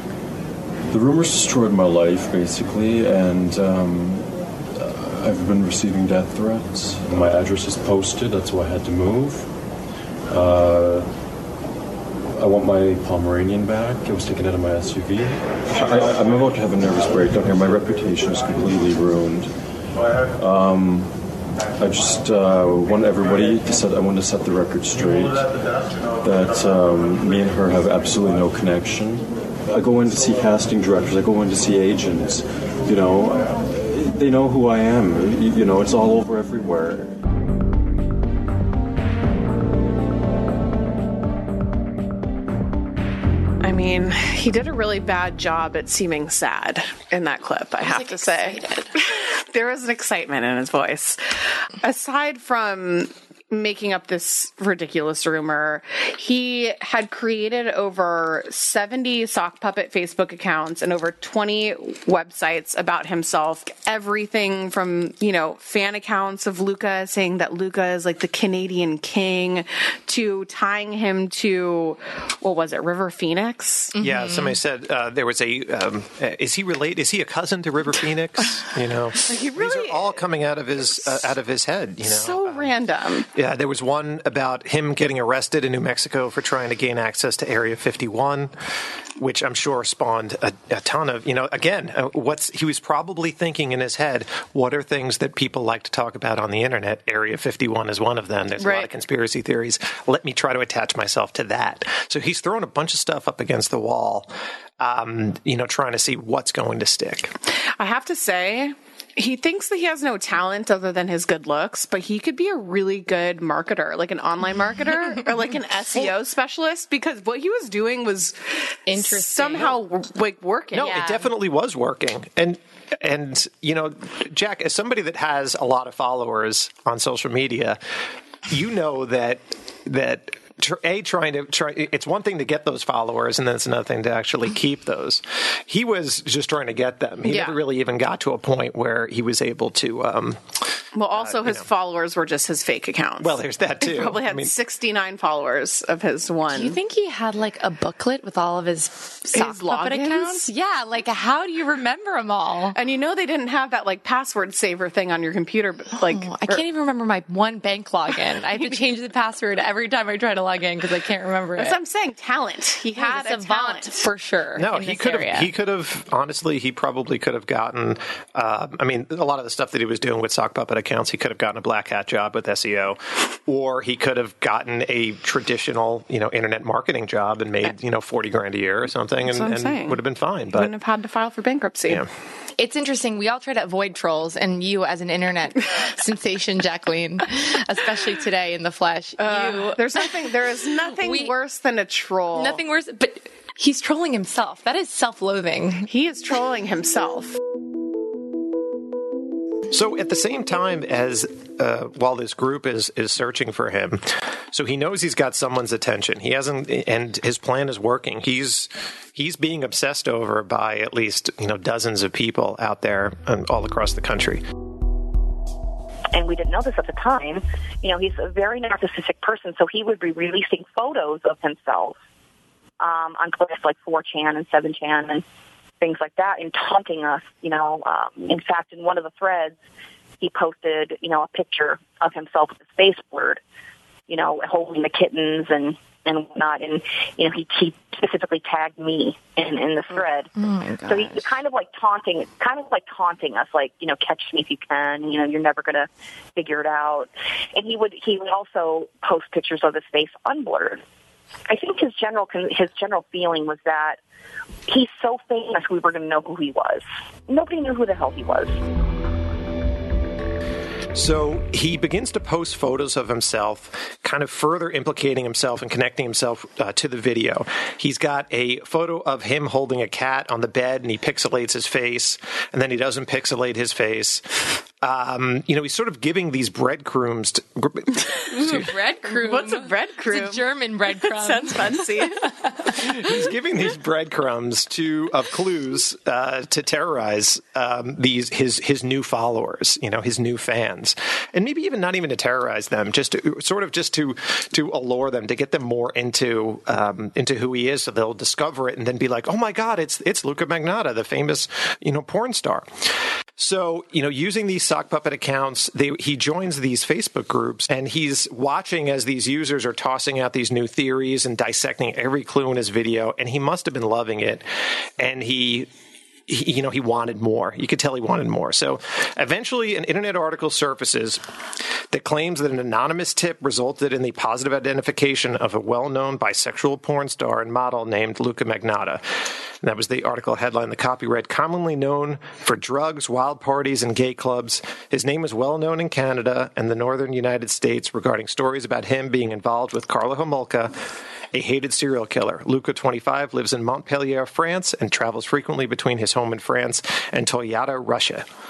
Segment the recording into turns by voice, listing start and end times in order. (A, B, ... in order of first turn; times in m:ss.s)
0:00.9-0:09.5 A
0:10.3-0:11.1 A
0:12.4-0:19.5 A
0:20.3-0:21.1 A
0:21.8-0:25.7 A
0:26.2-0:37.2 A
0:43.6-1:14.0 B
0:47.8-0:49.0 C
1:14.0-1:14.6 C
1:14.0-1:22.8 D
1:19.2-1:20.2 B
1:22.0-1:23.3 B
1:23.3-1:28.5 D
1:29.2-1:47.4 D
1:38.6-1:38.9 B
1:47.6-2:01.2 B
1:58.9-1:59.8 C
2:00.7-2:07.8 D
2:00.8-2:01.1 C
2:08.5-2:21.7 D
2:17.2-2:17.6 B
2:20.9-2:26.8 B
2:23.2-2:24.6 D
2:26.5-2:32.8 C
2:29.3-2:30.5 B
2:32.8-2:36.6 B
2:36.1-2:41.8 C
2:41.6-2:44.1 B
2:43.0-2:45.5 C
2:44.6-3:00.7 D
2:59.2-3:00.0 B
3:00.5-3:02.1 B
3:02.6-3:09.8 C
3:09.2-3:12.6 B
3:11.0-3:11.3 C
3:12.3-3:15.9 C
3:15.9-3:17.4 B
3:19.7-3:34.4 D
3:36.1-3:42.0 E
3:42.8-3:45.2 E
3:45.8-3:49.6 E
3:50.2-3:53.4 E
3:54.1-4:00.3 E
4:00.4-4:01.2 C
4:00.9-4:10.8 E
4:11.5-4:14.0 E
4:14.7-4:18.6 E
4:20.9-4:34.2 D
4:34.8-4:38.7 D
4:38.4-4:42.8 B
4:38.4-4:42.3 C
4:42.8-5:15.7 D
5:16.3-5:21.2 D
5:21.9-5:40.8 D
5:41.3-5:48.3 D